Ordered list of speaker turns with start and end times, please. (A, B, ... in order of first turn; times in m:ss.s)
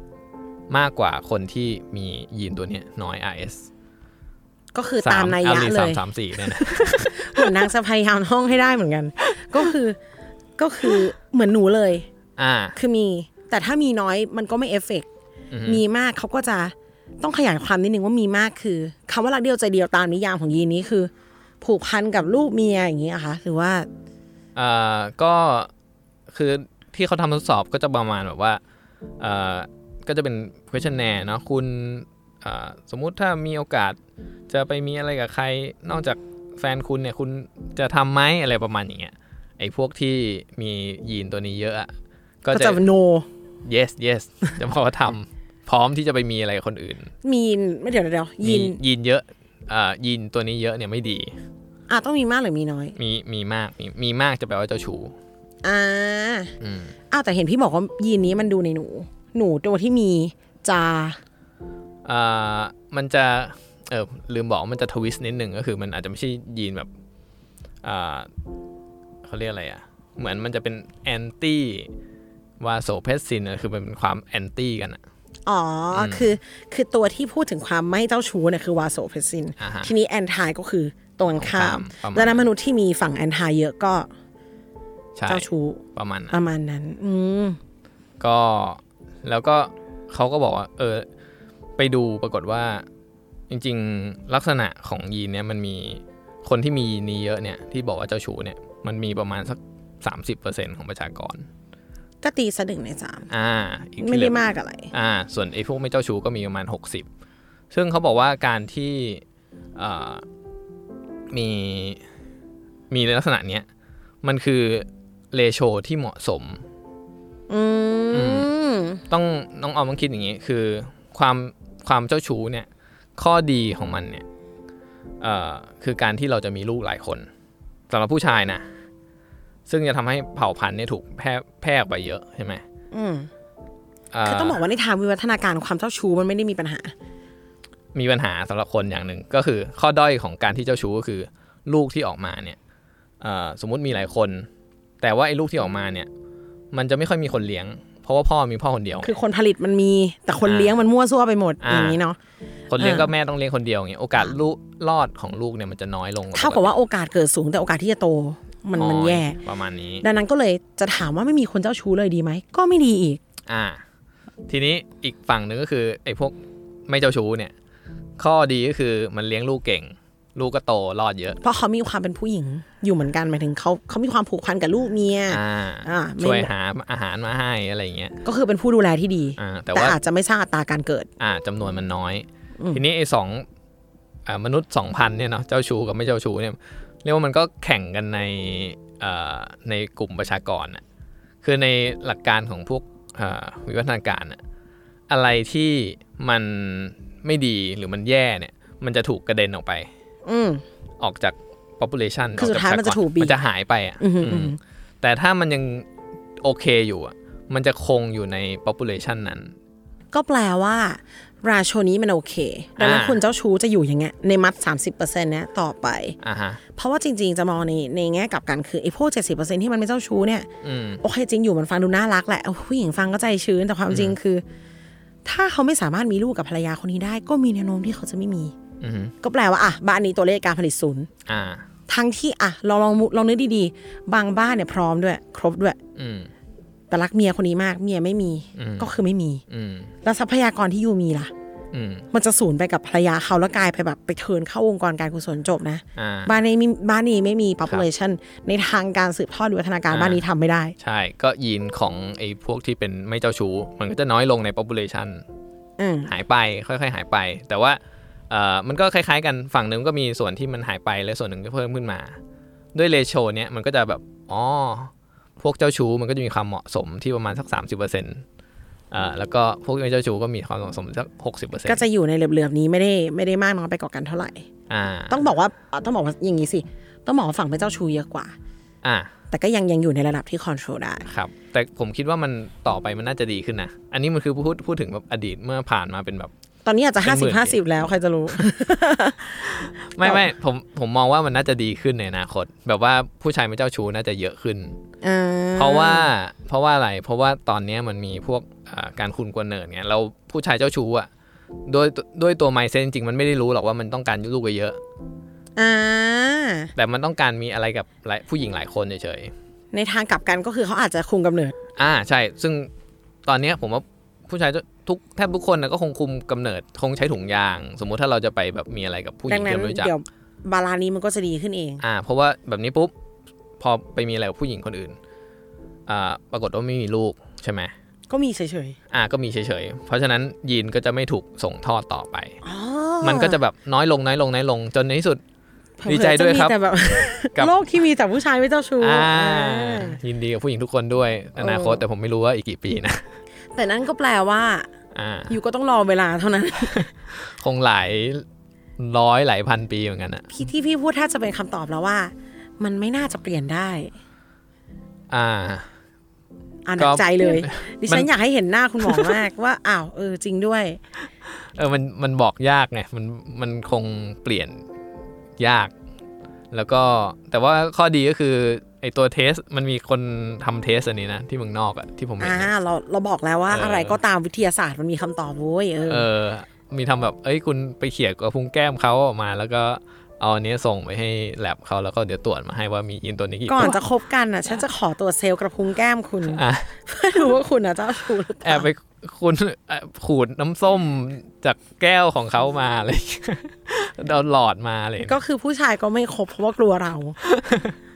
0:00.7-0:03.7 A
0:04.7-0:10.0 B
0:05.0-0:07.7 A
0:10.6-0:12.1 B
0:12.4-0:12.8 A
0:12.8-0:15.1 B
0:15.5-0:15.8 A
0:15.6-0:23.9 B
0:24.6-0:25.7 A
0:26.3-0:28.6 A
0:29.2-0:34.0 A
0:34.5-0:41.9 A
0:42.4-0:42.8 A
0:42.5-0:43.3 B
0:43.6-0:47.1 A
0:47.2-0:48.8 B
0:48.4-0:51.4 A
0:51.9-0:53.0 B
0:53.0-0:55.2 A
0:55.6-0:56.5 B
0:56.6-0:57.0 A
0:57.1-1:01.2 B
1:02.0-1:06.9 A
1:07.8-1:08.3 A
1:09.2-1:11.9 A
1:12.6-1:15.0 A
1:15.5-1:24.1 B
1:15.9-1:16.4 A
1:19.6-1:19.9 A
1:21.4-1:22.4 A
1:25.2-1:26.4 A
1:25.3-1:27.6 B
1:28.2-1:31.1 A
1:31.8-1:32.8 A
1:33.5-1:41.5 A
1:42.2-1:43.3 B
1:43.3-1:47.1 A
1:44.0-1:44.9 B
1:47.7-1:49.2 A
1:49.8-1:50.2 A
1:51.3-1:52.0 A
1:52.9-1:53.7 A
1:54.2-1:56.6 A
1:57.5-1:59.0 B
1:58.1-1:58.5 A
1:59.1-2:04.2 A
2:05.2-2:07.3 A
2:07.9-2:08.7 A
2:09.7-2:12.6 A
2:12.9-2:13.3 B
2:14.1-2:14.6 A
2:14.2-2:16.9 B
2:17.9-2:22.6 A
2:23.2-2:24.5 A
2:25.0-2:26.1 A
2:26.7-2:29.2 A
2:29.0-2:32.2 B
2:30.4-2:30.8 A
2:31.6-2:32.0 A
2:32.7-2:36.8 A
2:32.8-2:33.1 B
2:36.3-2:39.4 B
2:38.8-2:40.1 A
2:40.0-2:43.2 B
2:43.5-2:43.8 A
2:44.5-2:47.5 A
2:48.2-2:51.4 A
2:51.4-2:56.5 B
2:55.3-2:58.2 A
2:58.2-3:01.1 B
2:59.4-3:00.0 A
3:01.2-3:03.5 A
3:04.3-3:10.8 A
3:11.4-3:14.4 A
3:15.1-3:19.9 A
3:20.2-3:20.6 B
3:21.0-3:25.9 A
3:22.4-3:23.4 B
3:24.0-3:24.6 B
3:26.4-3:29.5 A
3:30.1-3:36.2 B
3:32.8-3:33.2 A
3:36.2-3:36.6 A
3:36.8-3:40.5 B
3:40.6-3:41.0 A
3:41.0-3:44.4 B
3:43.9-3:44.2 A
3:45.2-3:48.6 B
3:48.8-3:49.1 A
3:49.2-3:51.1 B
3:51.3-3:51.7 A
3:51.9-3:55.8 B
3:56.0-3:56.3 A
3:56.9-3:59.4 B
3:58.6-3:58.9 A
3:59.5-3:59.9 A
4:00.0-4:01.3 B
4:01.7-4:02.1 A
4:02.1-4:10.8 B
4:06.0-4:06.3 A
4:09.9-4:10.2 A
4:10.8-4:15.2 A
4:15.8-4:16.1 B
4:16.1-4:22.2 A
4:22.7-4:28.2 A
4:28.9-4:31.9 A
4:31.6-4:34.5 B
4:34.7-4:35.2 A
4:35.1-4:38.4 B
4:38.8-4:39.1 A
4:39.3-4:41.1 B
4:41.1-4:46.3 A
4:46.6-4:50.3 B
4:47.0-4:47.6 A
4:49.4-4:54.8 A
4:55.0-4:56.1 B
4:55.6-5:01.1 A
5:01.7-5:04.8 A
5:05.6-5:06.7 B
5:06.8-5:09.3 A
5:09.7-5:11.6 B
5:11.8-5:12.7 A
5:13.3-5:19.9 A
5:19.3-5:21.8 B
5:21.8-5:22.9 A
5:23.6-5:25.0 A
5:25.9-5:27.7 A
5:28.1-5:28.8 B
5:28.9-5:32.4 A
5:32.4-5:33.4 B
5:33.0-5:35.2 A
5:35.8-5:40.0 B
5:35.8-5:36.6 A
5:37.3-5:37.6 A
5:38.8-5:43.0 A
5:41.4-5:41.8 B
5:43.5-5:44.7 B
5:44.9-5:45.4 A
5:45.3-5:46.9 B
5:47.1-5:48.2 A
5:48.8-5:50.3 A
5:50.3-5:53.9 B
5:55.1-5:55.7 A
5:56.7-6:00.8 B
5:56.8-5:58.1 A
5:58.8-5:59.2 A
6:01.6-6:04.6 A
6:05.4-6:05.7 A
6:06.5-6:12.5 A
6:12.2-6:16.1 B
6:13.5-6:14.0 A
6:15.9-6:23.8 A
6:23.5-6:28.7 B
6:26.3-6:26.8 A
6:28.4-6:35.2 A
6:35.0-6:37.2 B
6:37.2-6:37.7 A